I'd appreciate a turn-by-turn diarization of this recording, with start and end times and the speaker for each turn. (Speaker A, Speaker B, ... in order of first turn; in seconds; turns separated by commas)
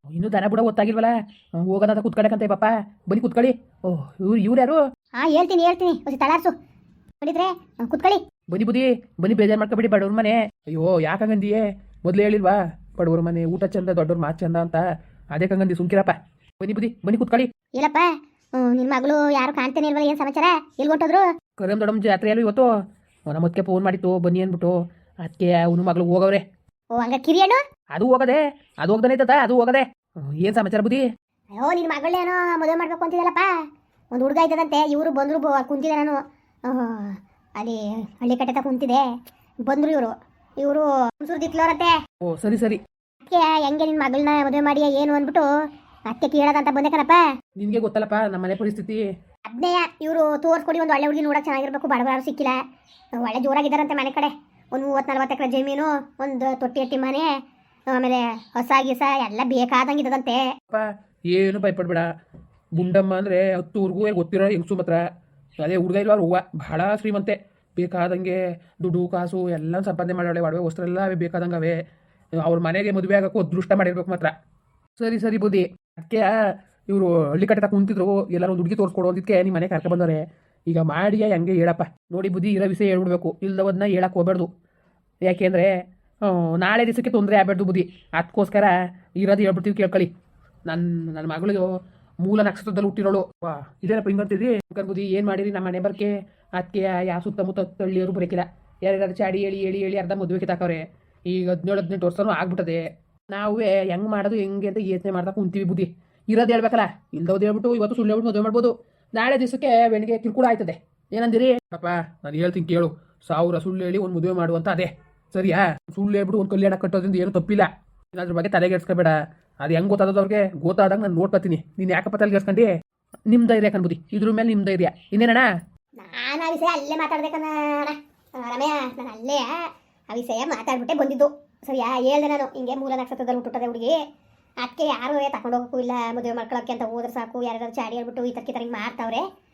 Speaker A: 0.1-4.8, Speaker B: 5.2-6.5, Speaker B: 7.2-8.2, Speaker A: 8.5-17.5, Speaker B: 17.8-21.3, Speaker A: 21.6-22.7, Speaker A: 23.3-26.4, Speaker B: 26.9-27.6, Speaker A: 27.9-31.1, Speaker B: 31.5-33.5, Speaker B: 34.1-39.0, Speaker B: 39.6-42.0, Speaker A: 42.2-42.8, Speaker B: 43.3-45.5, Speaker B: 46.1-47.2, Speaker A: 47.6-49.1, Speaker B: 49.5-52.6, Speaker B: 53.2-57.3, Speaker B: 57.9-60.5, Speaker A: 60.7-62.1, Speaker A: 62.8-65.0, Speaker A: 65.6-71.8, Speaker A: 72.4-74.3, Speaker A: 75.0-84.5, Speaker A: 85.2-90.1, Speaker A: 90.7-122.7, Speaker A: 123.3-125.5, Speaker B: 126.0-134.0, Speaker B: 134.6-139.2